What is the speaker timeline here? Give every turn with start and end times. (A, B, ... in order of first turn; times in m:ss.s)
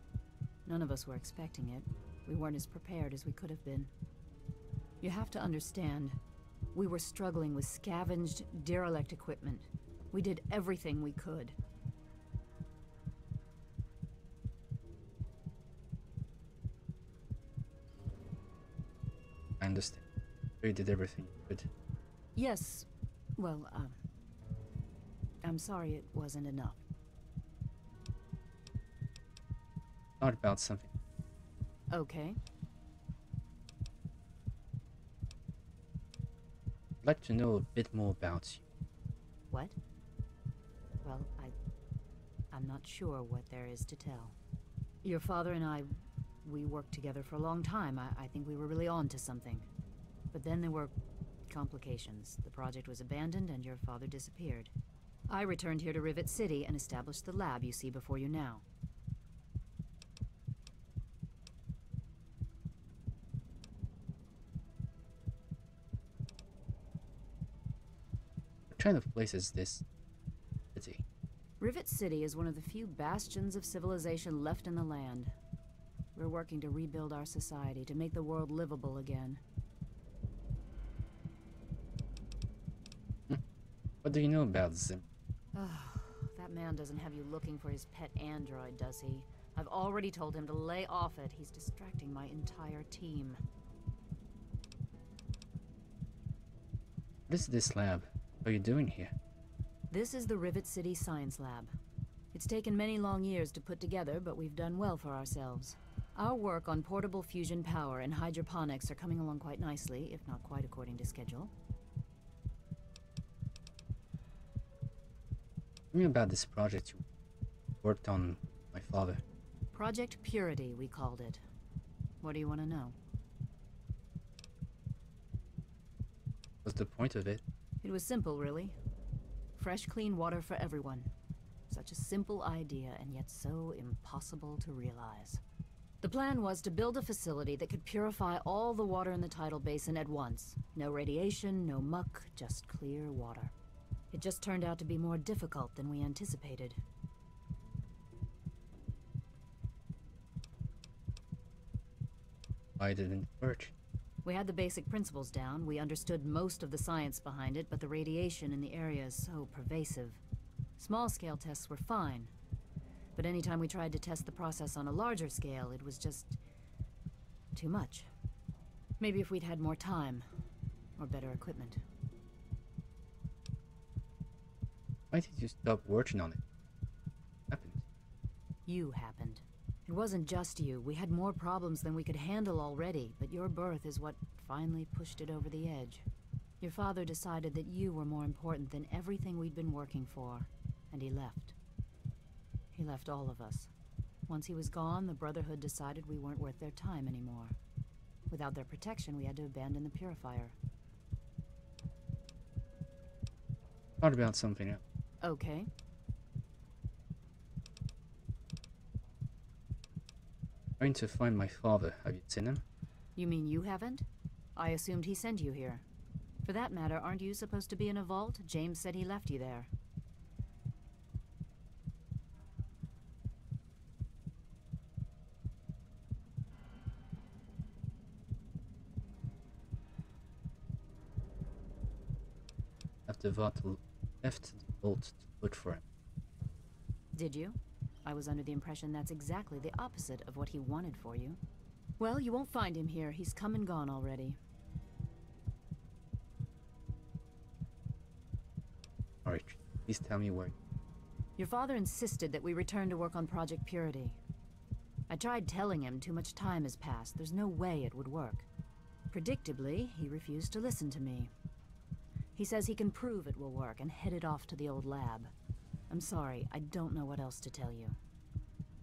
0:00.6-0:03.9 A
0:05.0-0:06.2 A
0:06.7-0:11.6 A
0:19.6-0:20.0 B
0:20.6-0:21.7 B
0:22.4-0:22.9 A
0:23.4-0:24.0 A
0:25.4-0:26.8 A
0:30.2-0:30.9 B
0:31.9-0:32.4 A
0:37.0-0:38.6 B
0:39.5-0:39.8 A
0:41.0-0:41.5 A
0:42.5-0:44.3 A
0:45.0-0:49.7 A
0:50.3-0:50.9 A
0:51.5-0:54.7 A
0:55.3-0:58.6 A
1:08.7-1:09.8 B
1:10.7-1:11.0 B
1:11.6-1:15.3 A
1:16.1-1:19.4 A
1:24.0-1:25.0 B
1:25.5-1:33.4 A
1:37.3-1:39.1 B
1:39.9-1:41.7 A
1:42.3-1:51.5 A
1:55.9-1:57.0 B
1:57.8-1:59.2 B
1:59.7-2:01.4 A
2:02.2-2:03.0 A
2:06.6-2:07.4 B
2:07.8-2:08.8 A
2:09.6-2:11.1 A
2:11.7-2:15.4 A
2:16.0-2:23.5 A
2:24.1-2:26.8 A
2:32.8-2:33.7 B
2:34.2-2:40.2 A
2:40.8-2:42.3 A
2:43.2-2:46.4 A
2:47.5-2:48.1 A
2:49.0-2:50.2 A
2:51.0-2:51.8 A
2:55.1-2:56.4 B
2:57.5-2:57.8 B
2:58.6-3:06.0 A
3:06.6-3:11.5 A
3:12.7-3:13.7 A
3:14.3-3:17.6 A
3:18.3-3:20.5 A
3:24.0-3:24.8 B
3:25.2-3:25.7 A
3:30.8-3:32.6 B
3:33.2-3:35.8 A
3:36.4-3:39.7 A
3:53.1-3:55.8 B
3:57.1-4:01.4 A
4:02.0-4:04.4 A
4:09.2-4:10.5 B
4:11.4-4:14.2 A
4:15.1-4:18.4 A
4:19.1-4:21.3 A
4:22.4-4:25.3 A
4:25.9-4:28.0 A